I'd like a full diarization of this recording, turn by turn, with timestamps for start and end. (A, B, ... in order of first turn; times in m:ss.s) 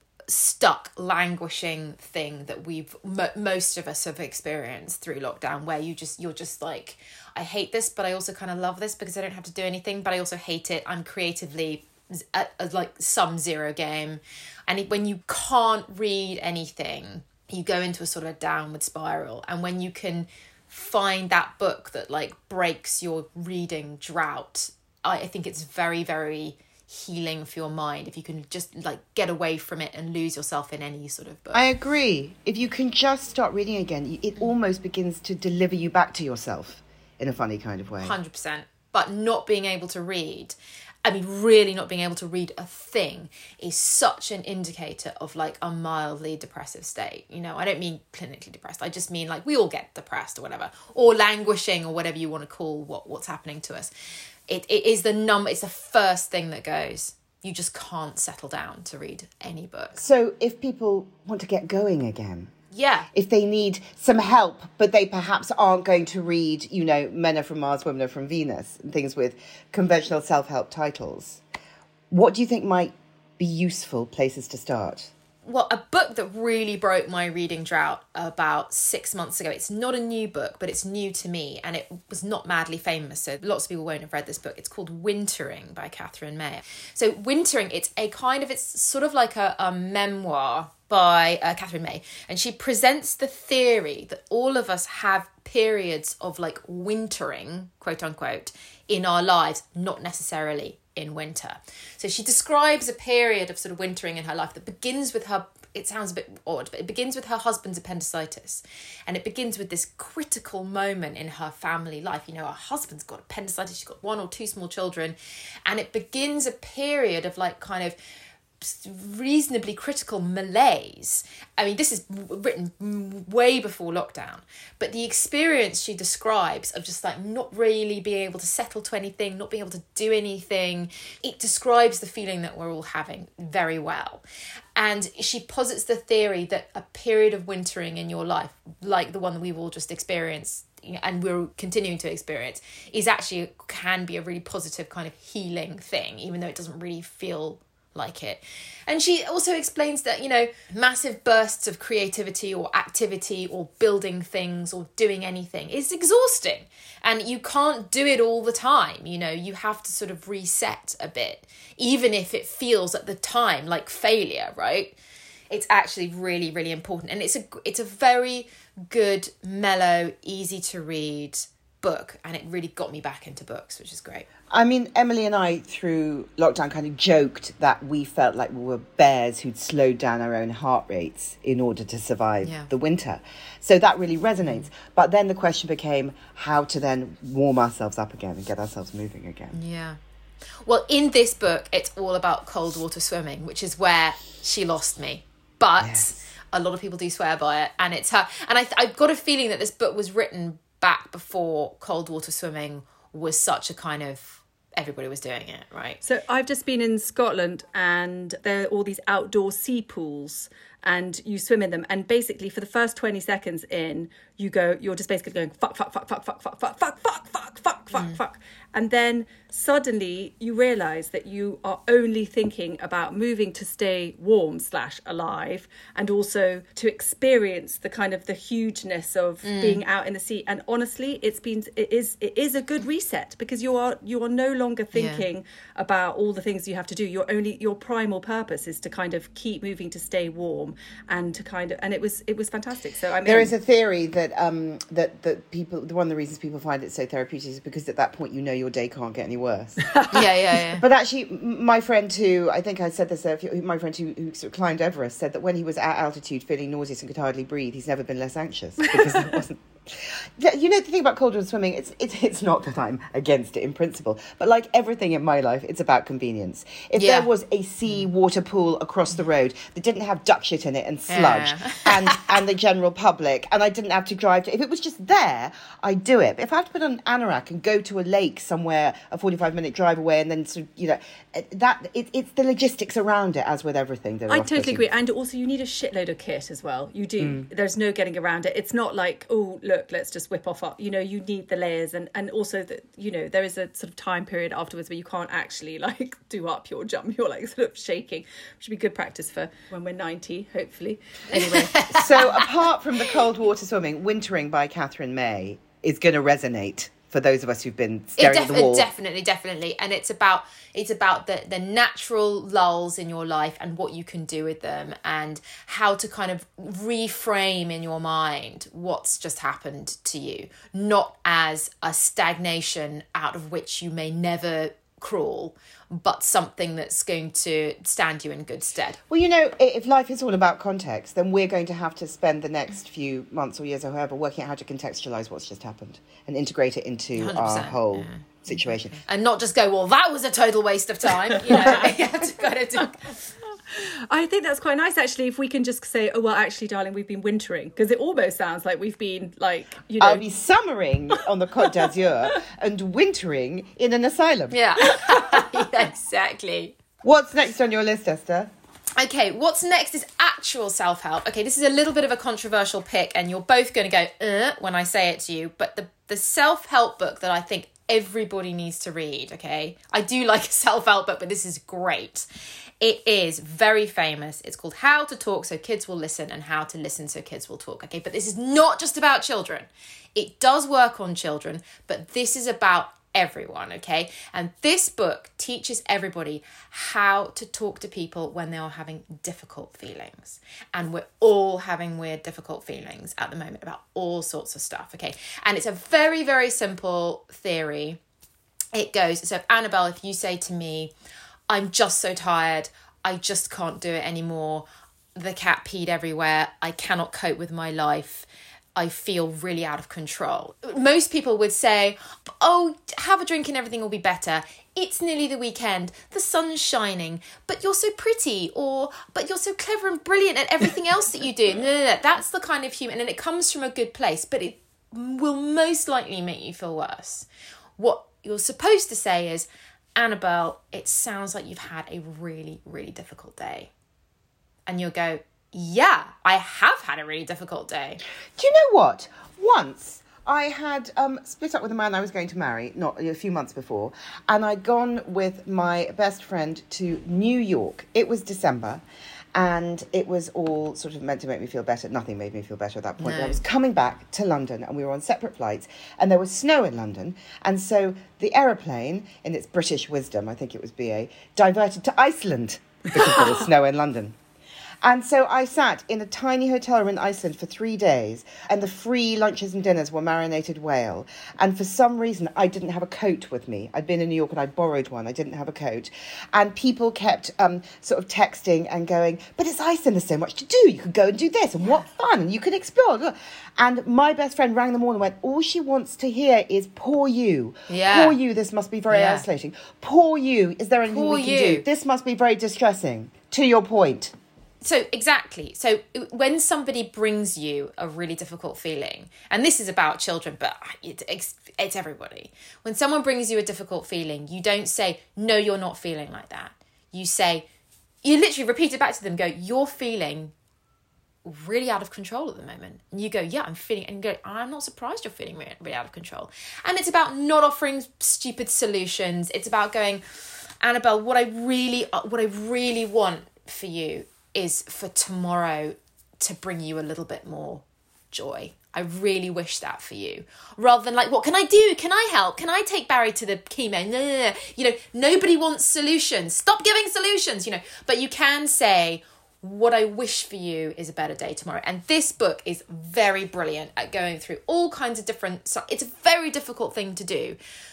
0:00.3-0:31.6 A
0:31.5-0:38.1 B
0:38.0-0:53.9 A
0:54.5-1:00.0 A
1:00.0-1:02.5 B
1:02.7-1:03.1 A
1:03.1-1:11.4 B
1:12.1-1:15.1 B
1:15.4-1:58.0 A
1:58.6-2:14.2 A
2:14.8-2:45.0 A
2:45.5-2:54.3 A
2:54.5-3:09.6 B
3:02.4-3:02.7 A
3:09.5-3:10.0 A
3:10.6-3:26.0 A
3:15.8-3:16.1 B
3:26.0-4:03.5 C
3:49.4-3:49.8 A
3:54.9-3:55.2 A
4:03.2-4:10.0 B
4:10.1-4:10.8 A
4:10.8-4:44.8 B
4:27.0-4:27.3 A
4:31.1-4:32.3 A
4:44.3-5:02.0 C
4:47.2-4:47.4 B
5:01.3-5:02.4 A
5:01.9-5:08.9 B
5:08.2-5:29.0 A
5:29.1-5:39.0 B
5:37.2-5:43.1 A
5:41.5-5:41.8 C
5:43.7-5:50.2 C
5:50.0-5:54.6 B
5:54.5-5:56.8 A
5:57.0-5:58.5 B
5:59.0-6:12.2 A
6:12.8-6:38.0 A
6:38.7-6:40.9 A
6:41.5-7:07.2 A
7:07.8-7:13.7 A
7:14.7-7:18.0 A
7:18.4-7:28.8 B
7:29.3-7:44.2 B
7:33.0-7:33.4 A
7:44.8-8:14.1 B
8:07.7-8:08.2 A
8:08.9-8:09.2 A
8:10.9-8:11.6 A
8:14.6-8:27.5 A
8:28.0-8:30.3 A
8:31.2-8:40.0 A
8:40.6-9:07.4 A